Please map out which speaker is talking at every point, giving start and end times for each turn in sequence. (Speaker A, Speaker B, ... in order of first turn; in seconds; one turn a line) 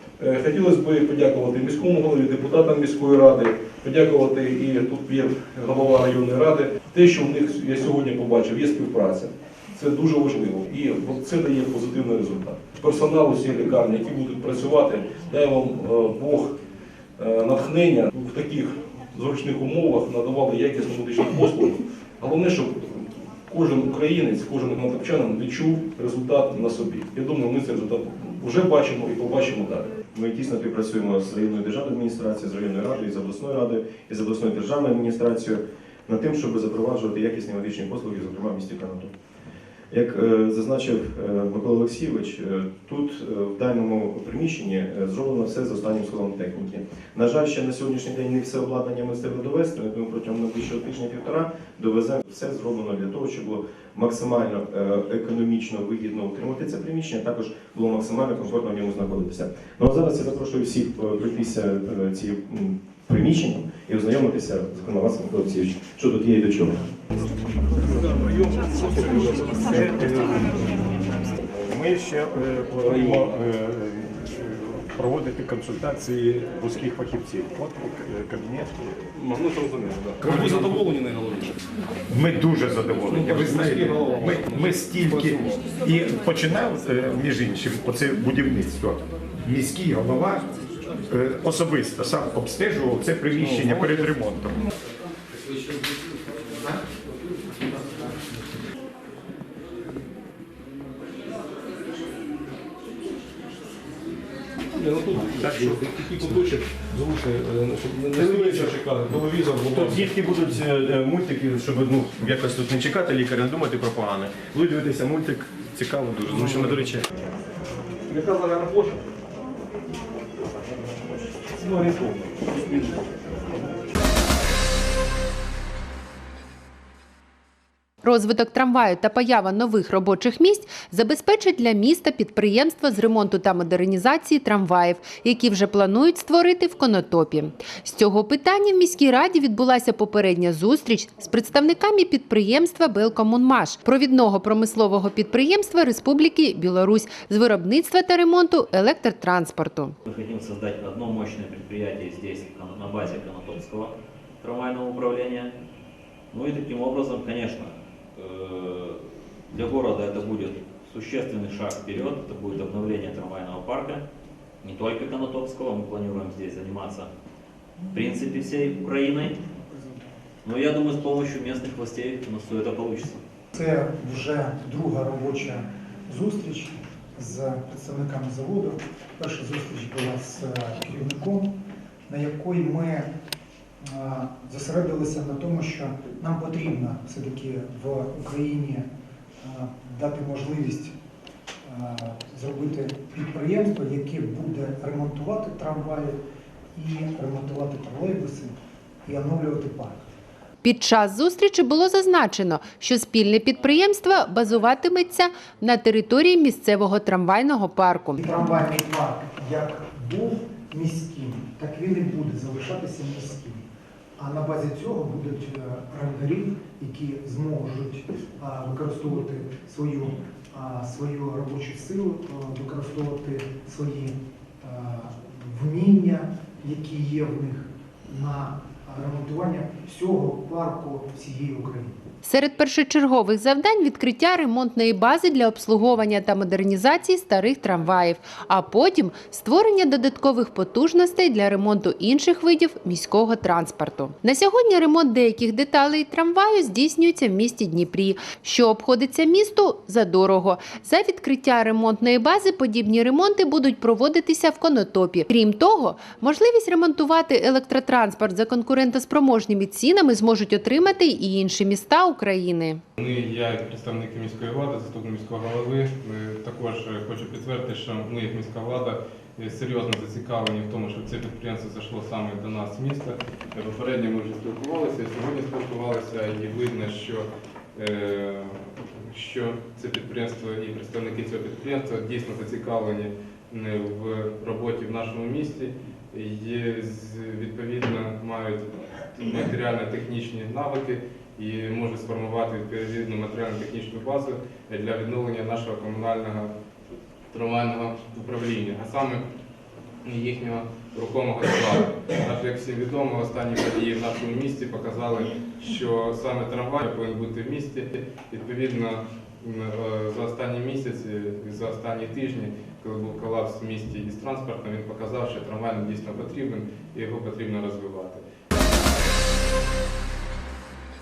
Speaker A: 0.2-16.6
Speaker A: 17.2-30.0
Speaker B: 30.1-39.1
Speaker B: 39.9-66.8
Speaker A: 67.7-71.1
Speaker C: 71.6-78.8
Speaker A: 72.8-73.4
Speaker A: 79.1-81.6
Speaker C: 80.2-80.6
Speaker C: 82.1-90.5
Speaker A: 83.1-85.7
Speaker C: 91.1-94.6
Speaker A: 104.7-110.5
Speaker B: 110.1-117.0
Speaker A: 116.3-116.8
Speaker A: 118.1-119.0
Speaker A: 121.5-123.6
Speaker D: 128.0-149.9
Speaker E: 150.1-155.5
Speaker E: 156.3-159.0
Speaker E: 159.5-164.0
Speaker E: 164.6-167.1
Speaker E: 167.9-169.4
Speaker E: 170.4-173.2
Speaker F: 173.5-181.5
Speaker F: 182.1-183.1
Speaker F: 183.8-188.9
Speaker F: 189.4-190.9
Speaker F: 191.7-196.2
Speaker F: 196.7-198.5
Speaker F: 199.0-200.1
Speaker D: 200.6-208.2
Speaker F: 208.2-213.6
Speaker F: 214.2-232.0
Speaker D: 232.2-262.8
Speaker G: 263.0-296.5
Speaker G: 297.3-299.2
Speaker G: 300.0-318.2